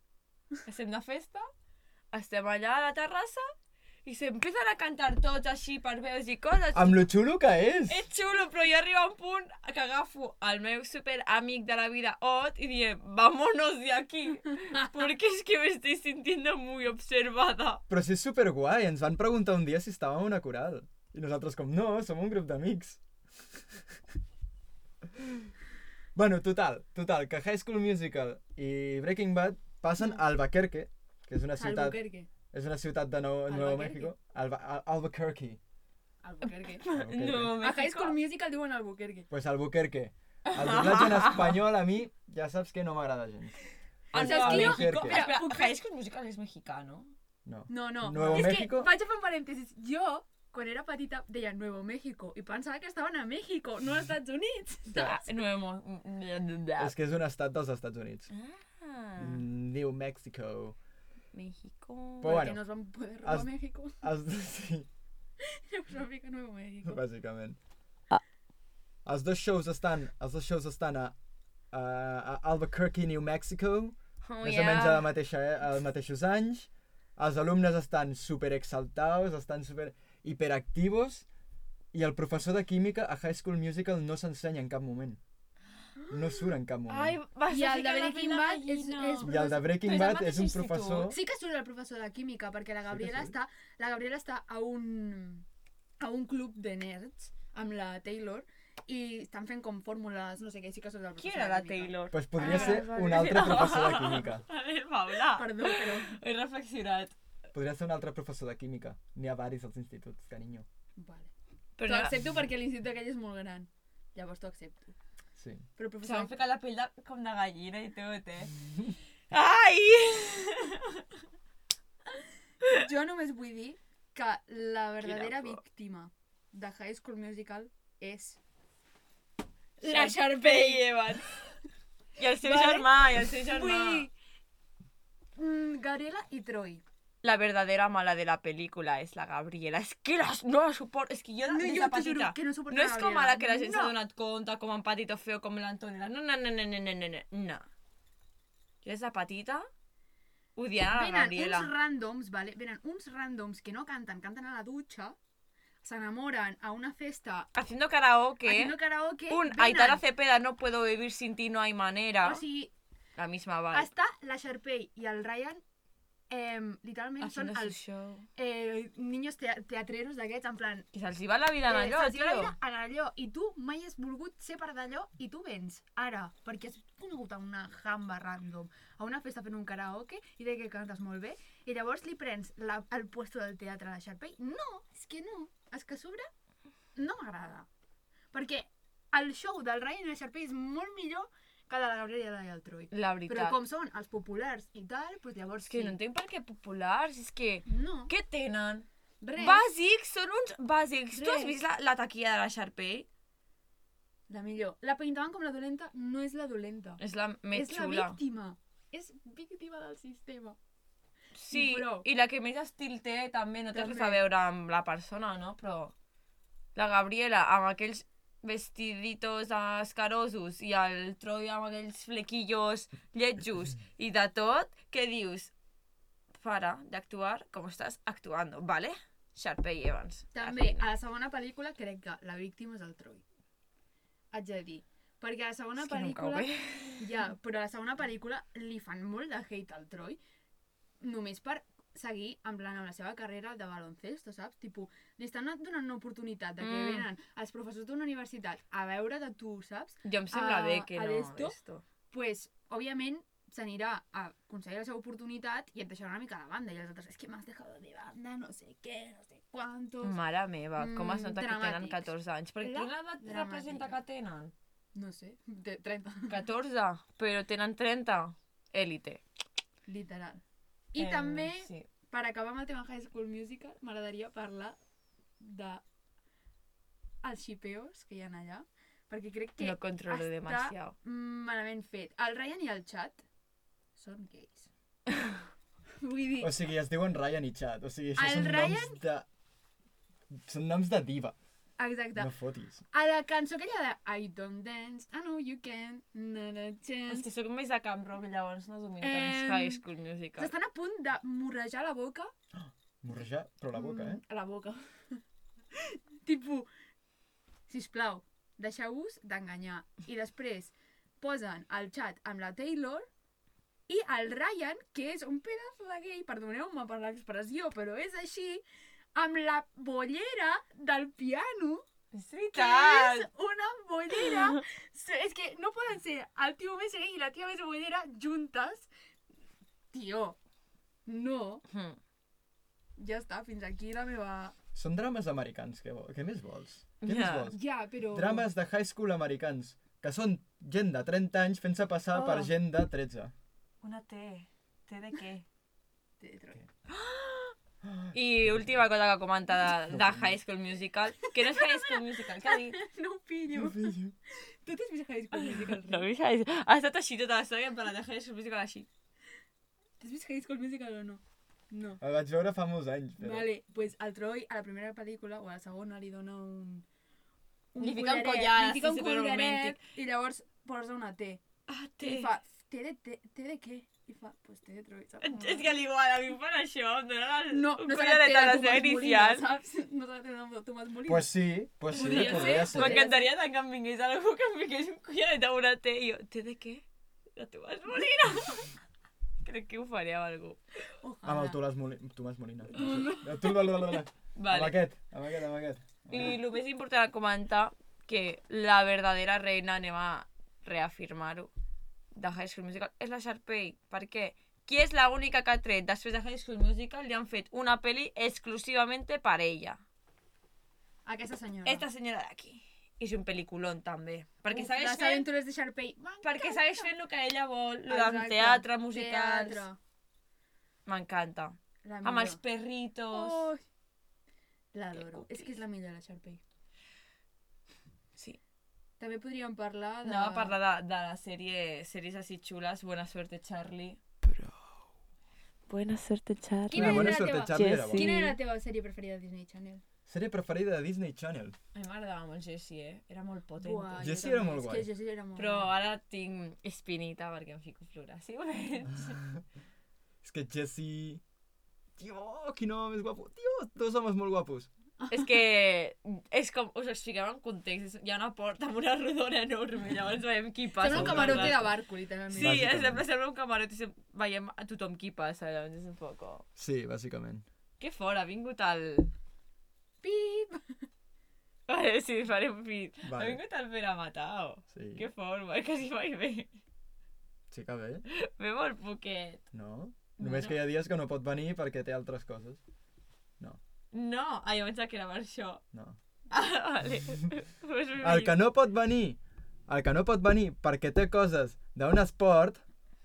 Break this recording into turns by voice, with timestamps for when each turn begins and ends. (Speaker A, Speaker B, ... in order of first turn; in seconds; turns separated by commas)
Speaker A: 0.6-1.5, Speaker A: 2.1-3.5, Speaker A: 4.0-7.0, Speaker B: 6.7-8.0, Speaker A: 7.9-17.8, Speaker B: 17.9-23.0, Speaker B: 23.5-23.8, Speaker B: 25.1-25.5, Speaker B: 26.1-32.0, Speaker C: 31.6-32.3, Speaker B: 32.5-35.6, Speaker C: 33.5-34.1, Speaker C: 36.2-36.9, Speaker A: 36.4-38.2, Speaker B: 36.9-37.6, Speaker C: 37.6-39.3, Speaker B: 39.3-43.6, Speaker A: 40.5-41.6, Speaker B: 44.1-45.3, Speaker A: 44.1-47.1, Speaker C: 44.1-45.8, Speaker B: 47.4-48.9, Speaker C: 47.7-55.2, Speaker A: 48.2-48.5, Speaker B: 54.9-55.2, Speaker A: 54.9-56.9, Speaker B: 56.8-58.3, Speaker A: 58.3-59.4, Speaker B: 59.2-60.8, Speaker A: 61.3-62.4, Speaker B: 62.2-62.6, Speaker C: 62.2-64.0, Speaker B: 63.2-63.5, Speaker B: 64.0-64.9, Speaker C: 65.4-67.0, Speaker B: 66.8-67.6, Speaker B: 69.0-71.1, Speaker B: 71.7-81.2, Speaker A: 74.2-75.1, Speaker B: 81.9-85.2, Speaker C: 86.0-86.4, Speaker B: 86.1-87.2, Speaker A: 86.9-91.1, Speaker C: 87.5-89.6, Speaker B: 89.2-91.2, Speaker C: 91.1-95.4, Speaker B: 92.9-93.3, Speaker C: 96.0-103.3, Speaker A: 101.2-107.1, Speaker B: 102.1-104.4, Speaker C: 105.3-106.2, Speaker B: 107.5-110.7, Speaker C: 111.0-111.3, Speaker A: 111.8-112.1, Speaker C: 111.8-115.0, Speaker B: 115.4-115.7, Speaker C: 115.8-116.3, Speaker A: 116.0-118.6, Speaker A: 119.3-121.0, Speaker C: 122.6-128.4, Speaker A: 125.0-125.6, Speaker C: 129.8-131.2, Speaker A: 129.8-131.3, Speaker A: 132.2-134.1, Speaker C: 132.4-134.1, Speaker C: 135.4-136.8, Speaker A: 137.2-147.7, Speaker C: 141.5-143.9, Speaker A: 148.8-149.7, Speaker A: 150.6-151.7, Speaker C: 150.9-155.2, Speaker C: 155.8-157.5, Speaker A: 157.5-158.8, Speaker C: 158.4-160.0, Speaker A: 159.3-162.4, Speaker C: 162.2-162.7, Speaker A: 163.2-163.9, Speaker C: 163.7-165.6, Speaker C: 166.3-167.8, Speaker A: 167.2-168.2, Speaker C: 168.4-170.9, Speaker A: 170.9-172.5, Speaker C: 171.7-186.3, Speaker C: 186.9-187.7, Speaker C: 188.3-196.0, Speaker A: 192.9-193.6, Speaker A: 195.7-198.9, Speaker C: 197.7-198.1, Speaker C: 199.2-199.6, Speaker A: 199.4-203.1, Speaker C: 201.1-201.6, Speaker C: 204.3-207.0, Speaker A: 207.0-208.2, Speaker C: 207.5-210.6, Speaker A: 211.3-215.9, Speaker C: 211.5-212.1, Speaker C: 213.7-214.2, Speaker A: 216.7-225.5, Speaker A: 226.4-230.9, Speaker C: 230.3-233.2, Speaker C: 234.3-240.2, Speaker A: 235.8-237.1, Speaker C: 241.0-251.6, Speaker A: 246.6-247.1, Speaker A: 250.0-251.8, Speaker C: 252.1-260.2, Speaker A: 260.0-264.5, Speaker C: 260.8-264.0, Speaker C: 264.9-266.4, Speaker A: 266.3-269.2, Speaker C: 269.9-270.4, Speaker C: 270.9-274.8, Speaker A: 270.9-271.9, Speaker C: 275.4-275.8, Speaker C: 277.2-283.2, Speaker A: 279.6-280.9, Speaker C: 283.9-284.7, Speaker C: 286.0-286.6, Speaker B: 286.4-289.3, Speaker C: 288.1-289.0, Speaker B: 290.3-291.4, Speaker C: 291.8-292.3, Speaker B: 292.1-292.8, Speaker C: 292.9-297.3, Speaker A: 297.1-300.5, Speaker C: 299.0-299.8, Speaker C: 300.4-302.3, Speaker B: 302.5-304.2, Speaker C: 303.7-305.2, Speaker C: 305.7-306.7, Speaker C: 307.7-313.1, Speaker C: 313.9-318.6, Speaker C: 319.1-321.8, Speaker A: 322.1-323.3, Speaker C: 322.5-328.9, Speaker A: 324.1-324.6, Speaker C: 329.9-330.4, Speaker C: 331.1-331.6, Speaker A: 331.7-332.0, Speaker C: 333.0-334.5, Speaker B: 334.7-337.6, Speaker A: 337.0-337.5, Speaker C: 337.5-338.5, Speaker B: 338.1-343.3, Speaker C: 342.2-342.5, Speaker A: 343.8-345.4, Speaker C: 346.2-346.6, Speaker A: 346.9-347.5, Speaker B: 347.8-348.8, Speaker A: 348.1-352.8, Speaker B: 349.8-350.4, Speaker C: 351.4-356.1, Speaker B: 353.5-354.1, Speaker A: 355.3-358.9, Speaker C: 360.0-362.0, Speaker B: 362.0-363.5, Speaker C: 363.2-366.9, Speaker C: 367.7-371.4, Speaker A: 367.8-369.8, Speaker A: 371.7-372.3, Speaker C: 372.0-375.7, Speaker A: 375.2-379.4, Speaker C: 377.5-381.3, Speaker B: 381.1-383.1, Speaker C: 381.9-383.2, Speaker A: 381.9-386.8, Speaker A: 387.4-388.7, Speaker A: 389.4-390.6, Speaker C: 391.0-391.6, Speaker B: 391.2-396.4, Speaker C: 392.7-393.6, Speaker A: 394.4-394.8, Speaker A: 396.1-401.5, Speaker A: 402.1-409.8, Speaker C: 411.0-411.9, Speaker A: 411.6-415.3, Speaker C: 414.5-416.9, Speaker A: 416.2-419.6, Speaker C: 417.9-419.8, Speaker A: 420.9-423.5, Speaker C: 421.8-422.4, Speaker C: 423.1-423.6, Speaker C: 424.7-426.4, Speaker A: 424.9-425.6, Speaker C: 429.0-430.6, Speaker A: 430.0-434.0, Speaker B: 434.2-434.7, Speaker A: 435.7-438.4, Speaker C: 436.7-439.8, Speaker B: 436.7-438.2, Speaker B: 440.1-441.6, Speaker A: 441.7-444.1, Speaker C: 443.6-445.7, Speaker B: 444.0-444.9, Speaker A: 445.4-449.2, Speaker B: 450.2-451.2, Speaker B: 452.0-454.7, Speaker C: 455.0-455.4, Speaker A: 455.1-461.6, Speaker C: 460.8-462.6, Speaker B: 460.9-461.7, Speaker A: 462.3-466.4, Speaker B: 462.3-463.0, Speaker B: 466.6-467.4, Speaker A: 467.8-469.1, Speaker C: 470.0-470.6, Speaker A: 471.7-476.5, Speaker B: 473.0-473.4, Speaker B: 474.7-475.1, Speaker B: 477.5-478.0, Speaker A: 478.1-479.4, Speaker B: 479.5-482.6, Speaker A: 480.2-480.6, Speaker A: 483.9-485.6, Speaker A: 486.3-488.4, Speaker B: 488.0-492.6